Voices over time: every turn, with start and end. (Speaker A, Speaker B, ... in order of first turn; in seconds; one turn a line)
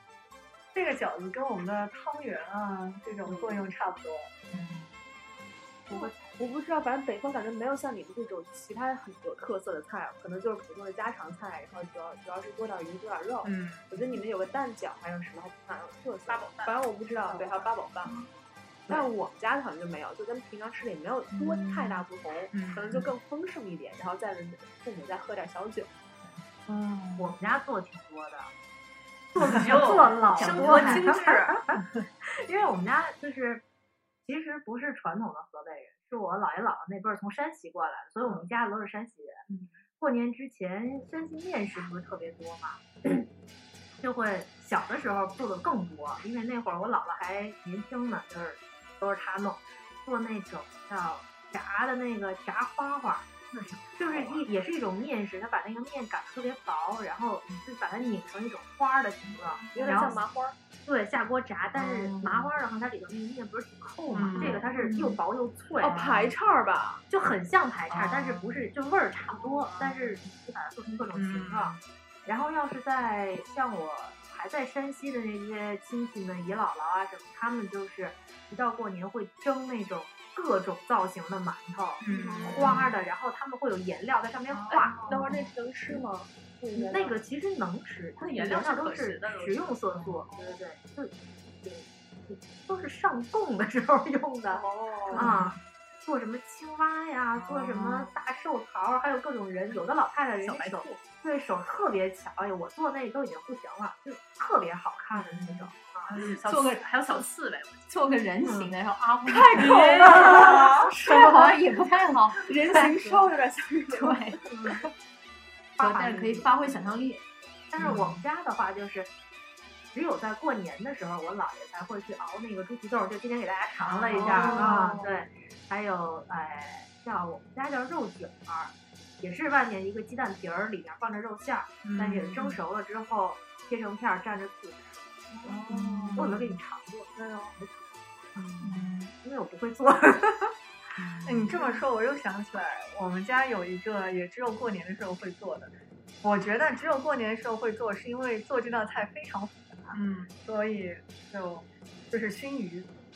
Speaker A: 0.7-4.3
Speaker B: 3.3-3.6
Speaker C: 4.5-4.9
Speaker B: 5.9-18.2
Speaker C: 13.4-13.9
Speaker C: 16.3-16.8
Speaker B: 18.9-25.9
Speaker C: 21.3-23.1
Speaker D: 27.2-28.5
Speaker D: 29.3-33.6
Speaker C: 29.4-31.5
Speaker E: 30.4-31.1
Speaker B: 30.8-31.6
Speaker D: 34.3-39.5
Speaker D: 40.0-43.2
Speaker D: 44.0-60.2
Speaker C: 54.1-54.4
Speaker B: 59.7-60.6
Speaker D: 60.8-66.0
Speaker C: 61.8-62.5
Speaker C: 64.1-65.2
Speaker B: 64.4-64.6
Speaker B: 65.8-67.0
Speaker C: 65.8-66.3
Speaker D: 67.1-85.4
Speaker C: 67.9-68.7
Speaker C: 69.6-70.2
Speaker C: 71.1-71.8
Speaker C: 82.0-82.9
Speaker B: 82.1-82.9
Speaker C: 84.5-85.0
Speaker B: 84.7-87.2
Speaker D: 86.9-106.1
Speaker C: 88.2-90.2
Speaker B: 94.5-95.3
Speaker C: 95.1-95.5
Speaker C: 97.4-98.1
Speaker C: 100.4-101.0
Speaker C: 105.1-107.9
Speaker E: 106.4-107.3
Speaker E: 107.9-113.3
Speaker D: 108.4-108.7
Speaker B: 109.3-111.6
Speaker C: 109.5-110.7
Speaker B: 112.4-114.8
Speaker E: 113.9-114.4
Speaker D: 114.5-114.8
Speaker D: 115.8-116.7
Speaker E: 115.8-117.3
Speaker D: 117.7-119.1
Speaker C: 117.8-118.2
Speaker D: 119.9-135.1
Speaker C: 123.8-124.9
Speaker C: 131.8-132.6
Speaker B: 135.5-135.8
Speaker C: 135.7-136.6
Speaker D: 136.2-137.7
Speaker D: 138.4-140.6
Speaker C: 138.6-138.9
Speaker C: 141.0-141.6
Speaker A: 141.3-152.9
Speaker C: 149.9-150.3